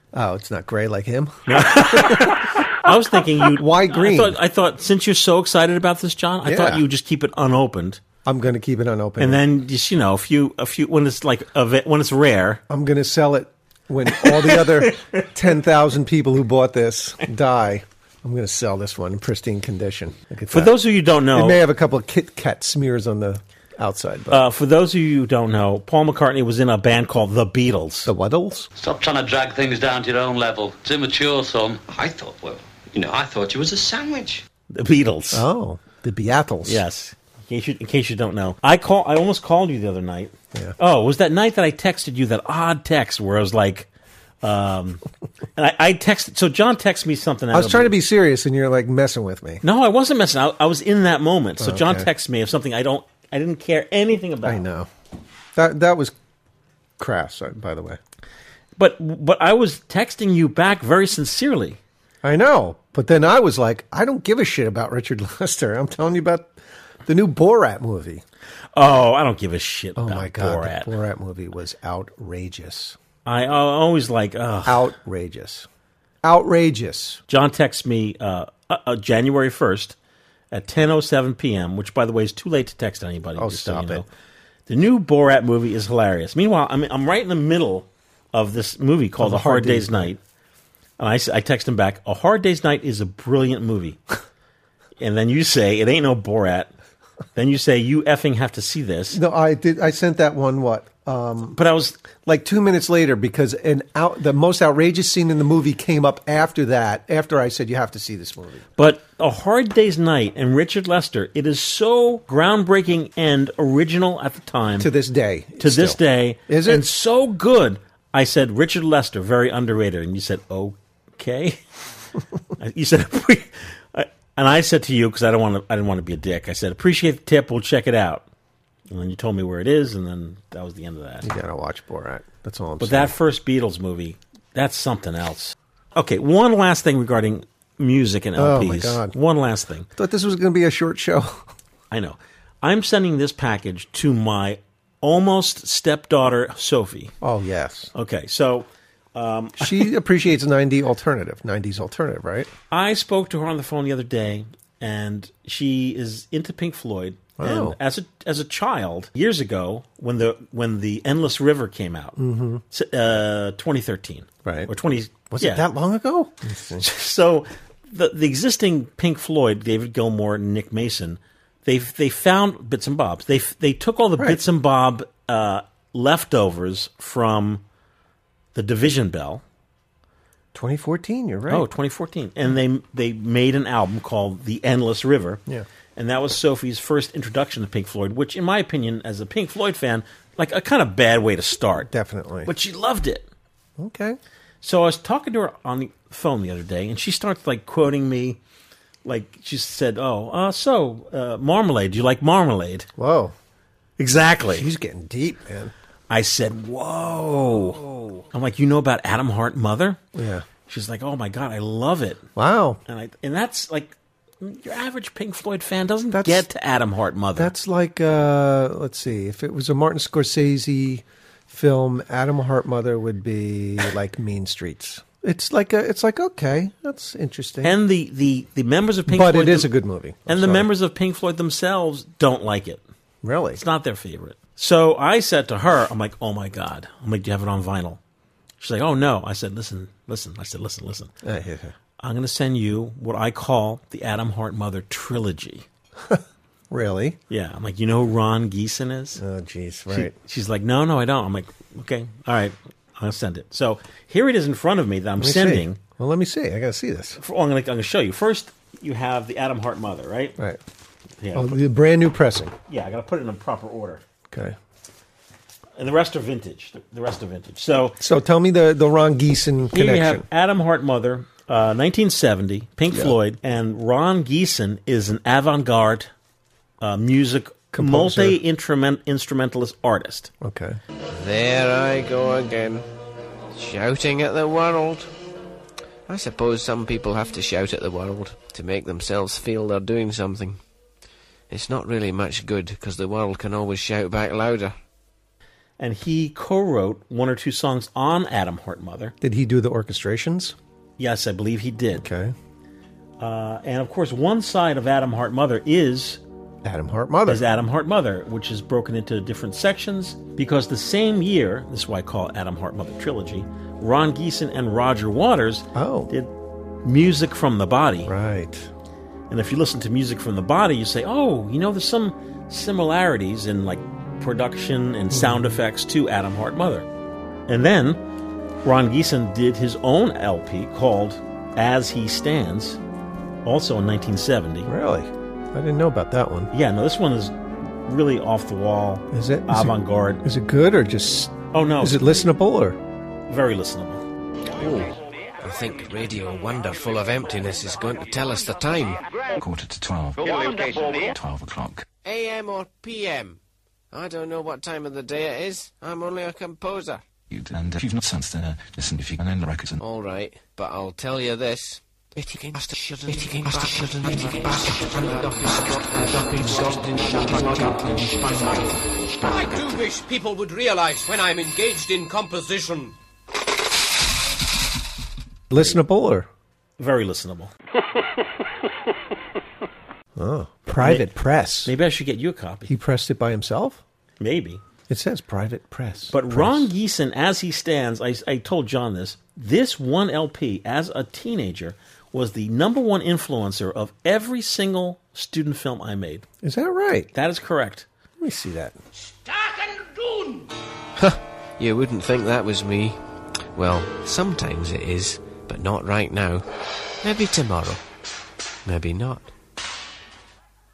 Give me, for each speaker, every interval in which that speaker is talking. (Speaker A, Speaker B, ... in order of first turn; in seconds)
Speaker A: 0.1-2.5, 3.4-4.4, 6.4-6.8, 8.2-9.4, 12.7-24.5, 28.0-28.7, 35.3-36.8, 47.5-49.6, 51.6-52.1, 54.4-54.9, 55.5-56.1, 57.0-58.0, 62.2-68.2, 70.0-73.0, 74.6-75.7, 76.2-77.2, 83.3-84.0, 89.2-90.1, 99.1-101.6, 102.2-108.7, 114.8-116.9, 131.2-133.1, 138.3-139.2, 139.9-141.5, 147.2-147.9, 149.6-152.5, 157.4-157.8, 162.2-162.6, 164.4-164.7, 165.3-166.9, 174.2-174.4, 180.5-181.7, 191.9-192.5, 193.8-194.2, 203.0-203.3, 204.4-205.7, 207.5-208.2, 210.1-210.5, 212.3-212.8, 216.1-216.5, 217.3-227.8, 229.1-230.7, 233.2-233.6, 241.2-241.7, 246.0-247.2, 249.2-250.1, 255.2-257.2, 261.3-262.5, 264.3-264.6, 268.0-270.2, 277.7-278.4, 280.4-280.8, 299.2-300.6, 301.9-302.3, 306.6-307.4, 315.7-316.1, 318.1-318.7, 325.1-325.5, 334.6-336.5, 339.1-342.8, 375.5-376.3, 380.1-381.7, 382.7-383.8, 384.9-386.7, 396.4-397.1, 398.2-398.8
Speaker B: 1.5-8.0, 9.2-12.6, 14.1-15.2, 20.5-21.6, 24.3-28.1, 34.7-35.5, 36.6-43.9, 44.4-45.0, 45.5-47.9, 49.6-54.6, 58.8-61.8, 68.7-70.9, 73.2-74.9, 77.3-80.0, 80.5-84.1, 84.7-90.2, 91.0-94.0, 95.0-96.7, 97.3-99.2, 101.5-102.0, 108.8-114.9, 115.6-121.6, 122.6-128.2, 128.9-131.3, 132.8-139.9, 141.9-147.1, 147.9-149.9, 152.7-162.2, 162.7-165.7, 166.8-177.6, 178.5-179.4, 181.5-185.4, 185.9-191.9, 192.4-193.3, 194.6-198.4, 199.0-202.9, 204.0-204.7, 206.1-207.8, 208.3-210.0, 210.7-212.2, 212.9-217.5, 227.6-229.7, 230.3-232.8, 233.6-238.0, 238.6-241.1, 242.0-245.7, 247.3-249.2, 249.9-255.8, 257.2-260.4, 261.2-261.6, 262.7-264.0, 265.8-268.0, 269.7-276.1, 276.8-280.3, 295.8-299.1, 301.0-302.1, 303.2-306.2, 307.3-316.3, 316.8-318.1, 319.3-326.9, 327.5-328.0, 328.6-332.8, 333.4-334.7, 336.5-340.2, 341.5-342.2, 343.3-344.0, 376.8-377.5, 380.8-381.1, 381.6-382.7, 384.2-384.6, 386.1-396.2, 397.1-397.9
Speaker C: 28.8-34.2
Speaker D: 281.1-282.9, 283.5-285.1, 286.1-290.6, 291.5-294.7, 344.5-349.0, 352.0-353.4, 353.9-357.0, 359.8-368.6, 369.2-372.9, 401.0-403.0, 403.6-406.4, 407.0-407.8, 408.6-409.3
Speaker E: 349.3-351.9, 357.3-359.8